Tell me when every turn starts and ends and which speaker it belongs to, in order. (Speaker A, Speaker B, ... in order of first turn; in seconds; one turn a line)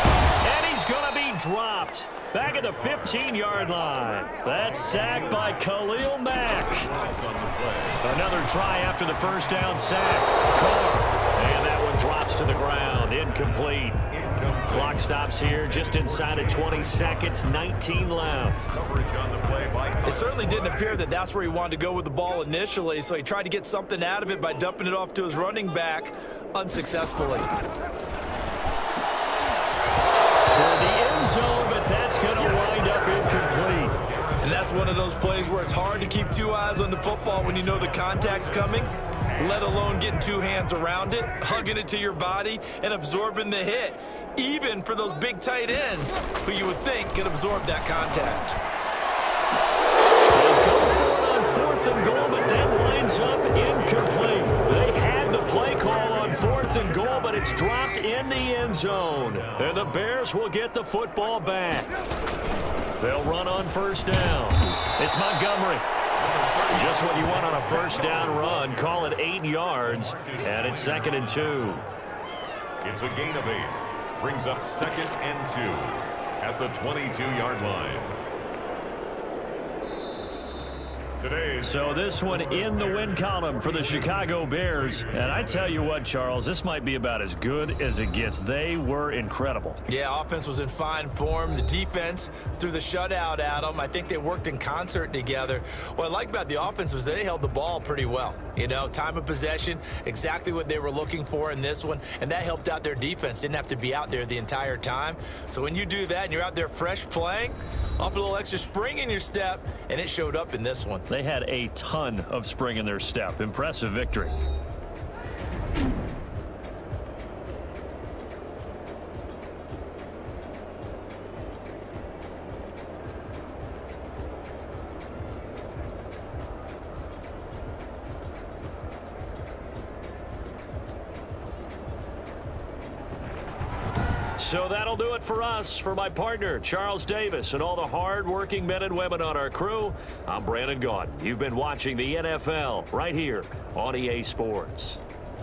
Speaker A: 0.4-6.9
Speaker B: 6.7-8.0
Speaker A: 8.0-14.0
Speaker B: 14.1-17.3
Speaker A: 14.6-18.7
Speaker B: 18.7-20.7
Speaker C: 20.0-27.5
Speaker A: 30.5-34.0
Speaker C: 34.4-48.6
Speaker A: 50.3-61.9
Speaker A: 63.0-65.8
Speaker B: 66.2-68.9
Speaker A: 66.7-71.8
Speaker B: 69.8-71.4
Speaker B: 72.8-78.1
Speaker B: 81.2-82.4
Speaker A: 81.6-89.8
Speaker B: 85.0-85.6
Speaker C: 89.9-111.1
Speaker A: 111.1-114.3
Speaker A: 134.4-145.0